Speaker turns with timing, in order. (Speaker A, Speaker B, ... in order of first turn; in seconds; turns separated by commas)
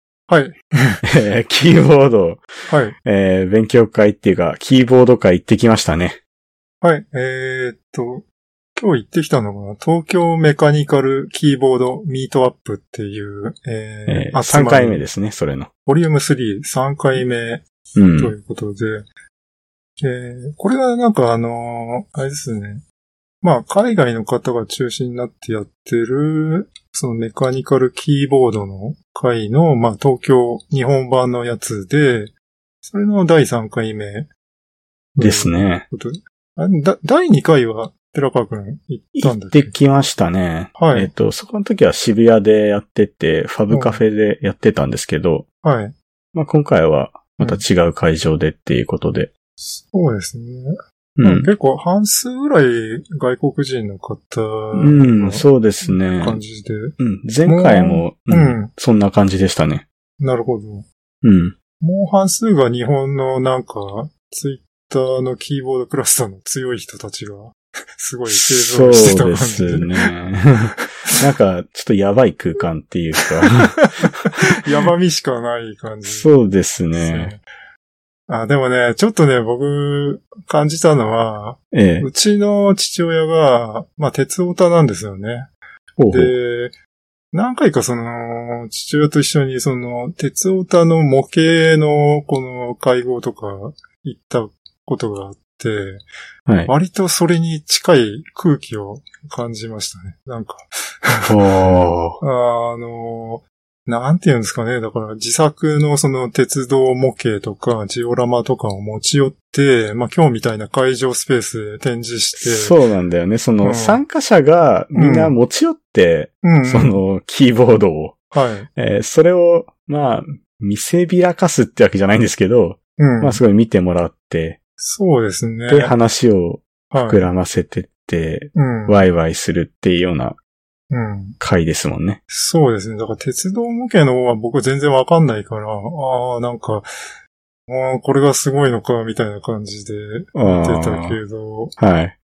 Speaker A: 0.3-1.0, Speaker B: 1.1-2.5, Speaker A: 2.7-3.0, Speaker B: 3.0-6.2, Speaker A: 6.8-8.2, Speaker A: 8.8-15.1, Speaker B: 14.1-15.7, Speaker A: 15.9-17.6, Speaker B: 18.0-18.4, Speaker A: 18.2-19.1, Speaker A: 20.0-22.8, Speaker A: 23.4-34.3, Speaker A: 35.2-39.8, Speaker B: 35.2-35.9, Speaker B: 39.2-45.5, Speaker A: 40.8-41.1, Speaker A: 43.7-44.0, Speaker A: 45.6-46.0, Speaker B: 46.3-49.3, Speaker A: 49.6-58.7, Speaker B: 51.2-51.5, Speaker B: 54.7-56.4, Speaker B: 57.0-59.9, Speaker A: 60.2-60.9, Speaker B: 61.2-61.5, Speaker A: 61.8-69.9, Speaker B: 68.3-74.5, Speaker A: 74.6-76.3, Speaker B: 76.0-77.3, Speaker A: 76.9-77.4, Speaker A: 78.3-85.5, Speaker B: 81.7-82.1, Speaker B: 86.0-86.3, Speaker A: 86.1-86.8, Speaker A: 87.3-96.0, Speaker B: 96.5-96.7, Speaker A: 96.7-101.3, Speaker B: 101.3-102.2, Speaker A: 102.2-112.8, Speaker B: 112.4-118.2, Speaker A: 113.6-114.0, Speaker A: 114.9-115.3, Speaker A: 116.4-117.0, Speaker A: 118.3-118.7, Speaker B: 118.8-124.6, Speaker A: 123.0-123.4, Speaker A: 124.8-126.0, Speaker B: 125.7-130.4, Speaker A: 126.9-127.2, Speaker A: 128.6-129.1, Speaker A: 130.9-131.4, Speaker B: 131.4-132.2, Speaker A: 132.3-136.9, Speaker A: 137.7-141.8, Speaker B: 140.3-141.2, Speaker B: 141.8-142.2